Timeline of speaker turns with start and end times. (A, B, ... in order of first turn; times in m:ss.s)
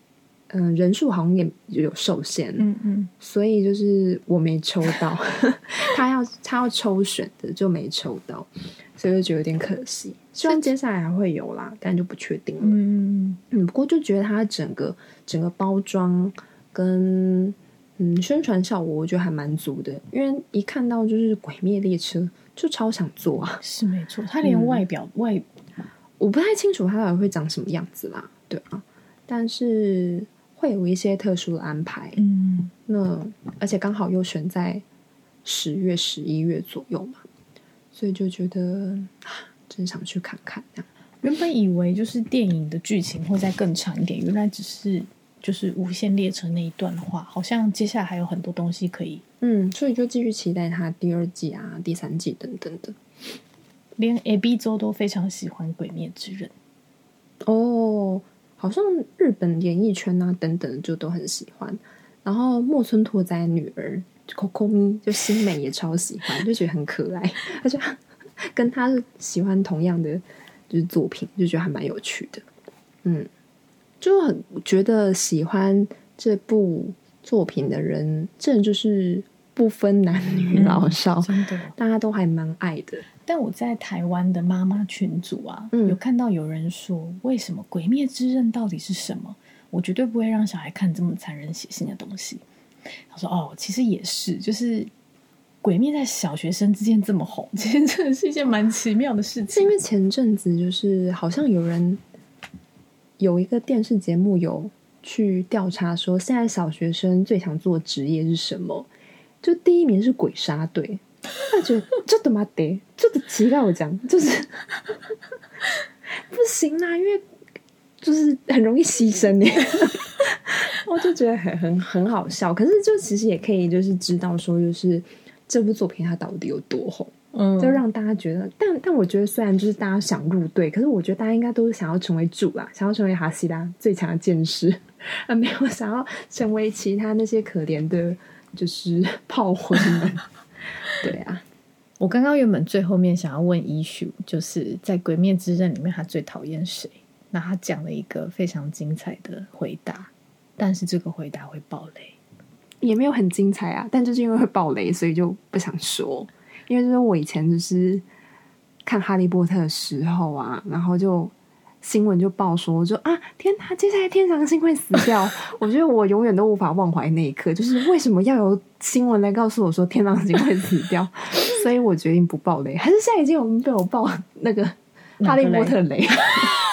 0:00.5-0:02.7 A
0:02.6-0:03.1 B
0:03.2-0:12.8 A
0:10.4-0:10.7 B
0:12.6-0:13.4 B
0:13.5-0:23.6 A
0:23.6-0:25.4 B
0:24.4-0:24.8 A
0:26.2-0:32.2 A
0:32.2-0:32.7 B
0:32.9-0:34.8 A
0:35.4-0:37.2 A
0:37.9-0:40.9 A
0:41.2-0:49.2 B
0:49.4-0:53.0 A
0:54.0-0:56.5 B
0:57.4-1:12.4 A
1:13.0-1:13.3 A
1:14.0-1:23.0 A
1:20.4-1:21.8 B
1:23.2-1:32.4 B
1:25.7-1:26.0 A
1:33.1-1:34.9 B
1:35.6-1:39.7 B
1:39.5-1:42.0 A
1:43.2-1:48.9 A
1:49.4-1:54.7 A
1:56.1-1:57.2 A
1:58.0-2:20.2 A
2:07.3-2:07.8 B
2:20.9-2:21.4 A
2:22.0-2:32.2 B
2:32.8-2:38.0 A
2:38.8-2:56.6 A
2:55.2-2:55.8 B